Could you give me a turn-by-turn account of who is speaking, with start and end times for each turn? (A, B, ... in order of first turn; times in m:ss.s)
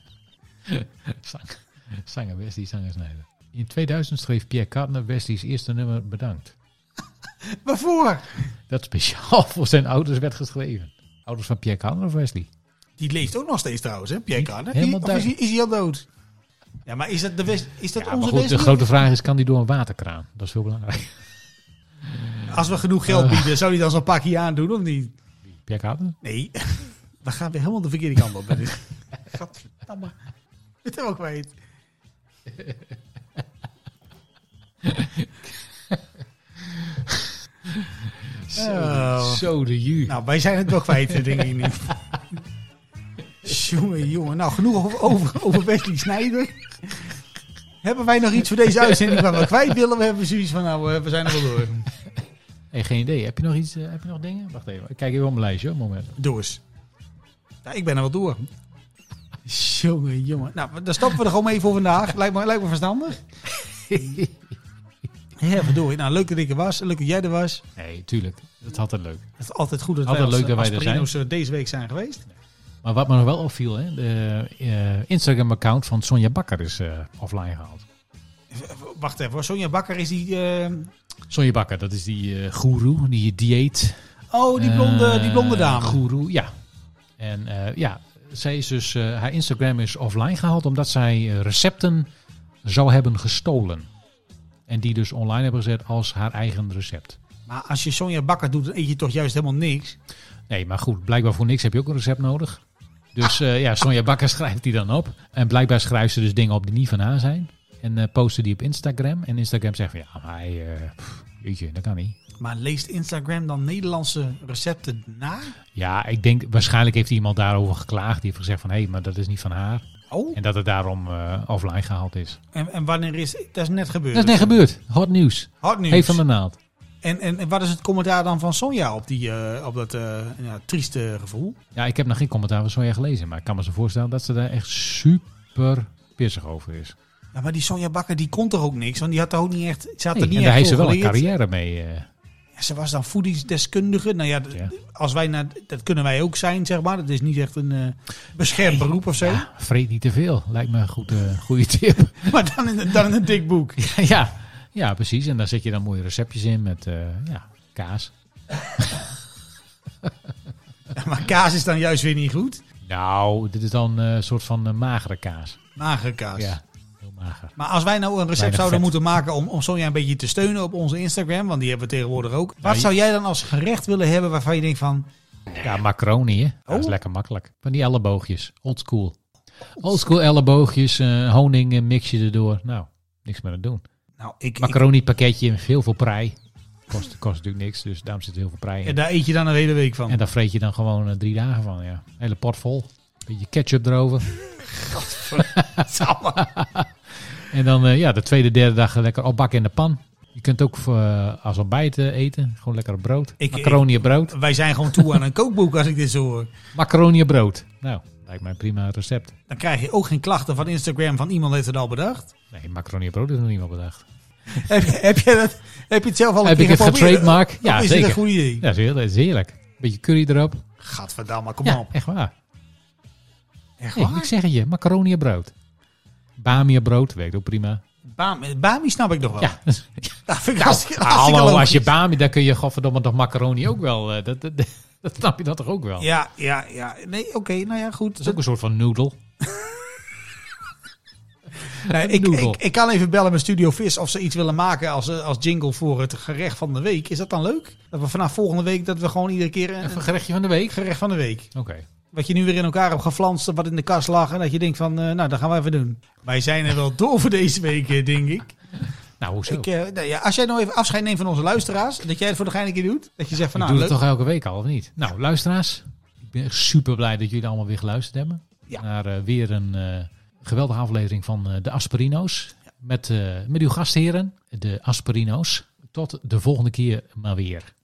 0:00.6-0:06.5 A
0:07.4-0:08.5 B
0:08.7-0:12.5 A
0:13.0-0:16.0 B
0:14.3-0:15.3 A
0:16.8-0:18.9 B
0:17.9-0:21.2 A
0:22.0-0:23.6 A
0:22.5-0:25.1 B
0:25.6-0:26.2 A
0:26.2-0:30.1 B
0:30.8-0:31.5 B
0:34.8-0:36.0 A
0:36.6-0:40.2 A
0:38.5-0:39.4 B
0:40.0-0:42.0 B
0:40.8-0:42.2 A
0:43.4-0:47.2 B
0:47.8-0:51.9 B
0:48.9-0:49.4 A
0:52.7-0:56.1 A
0:56.2-0:56.6 B
0:57.6-0:58.5 B
0:59.4-1:03.2 B
1:03.6-1:04.6 A
1:05.4-1:07.6 B
1:07.8-1:09.2 A
1:09.4-1:12.2 B
1:10.0-1:11.1 A
1:12.8-1:17.8 A
1:18.5-1:20.9 B
1:21.3-1:24.0 A
1:24.3-1:26.0 B
1:24.5-1:26.5 A
1:27.2-1:32.1 A
1:32.6-1:33.9 A
1:34.7-1:37.2 A
1:37.5-1:40.0 B
1:40.5-1:42.6 A
1:43.1-1:52.2 A
1:52.4-1:55.6 B
1:55.8-2:02.4 A
2:00.1-2:00.4 B
2:02.5-2:04.6 B
2:04.1-2:06.6 A
2:05.6-2:06.2 B
2:07.0-2:11.6 B
2:11.7-2:17.0 A
2:17.3-2:21.3 B
2:20.1-2:22.1 A
2:22.5-2:29.5 B
2:29.2-2:32.5 A
2:32.2-2:33.9 B
2:33.8-2:38.1 A
2:38.8-2:39.1 A
2:40.9-2:42.6 B
2:42.8-2:45.6 A
2:45.8-2:46.6 B
2:46.4-2:47.5 A
2:47.6-2:55.1 B
2:48.3-2:48.9 A
2:52.6-2:52.9 A
2:55.6-2:59.2 A
2:56.7-2:56.9 B
2:59.8-3:03.8 A
3:04.2-3:04.8 B
3:04.6-3:06.4 A
3:06.9-3:09.0 A
3:08.8-3:10.2 B
3:10.1-3:14.4 A
3:14.5-3:16.4 B
3:15.4-3:24.4 A
3:23.4-3:26.5 B
3:26.7-3:29.3 A
3:29.5-3:32.3 B
3:32.5-3:34.0 A
3:34.5-3:38.6 B
3:36.4-3:40.6 A
3:40.8-3:41.9 B
3:41.6-3:42.3 A
3:43.8-3:44.3 B
3:43.9-3:45.5 A
3:46.4-3:47.8 A
3:48.0-3:49.6 B
3:49.4-3:56.1 A
3:50.2-3:51.9 B
3:56.0-3:58.4 B
3:58.2-3:59.2 A
3:59.4-3:59.7 B
4:01.8-4:10.1 B
4:01.8-4:02.6 A
4:09.8-4:10.8 A
4:10.7-4:11.5 B
4:11.5-4:11.9 A
4:12.1-4:18.5 B
4:18.8-4:19.7 A
4:19.4-4:24.0 B
4:23.5-4:37.7 A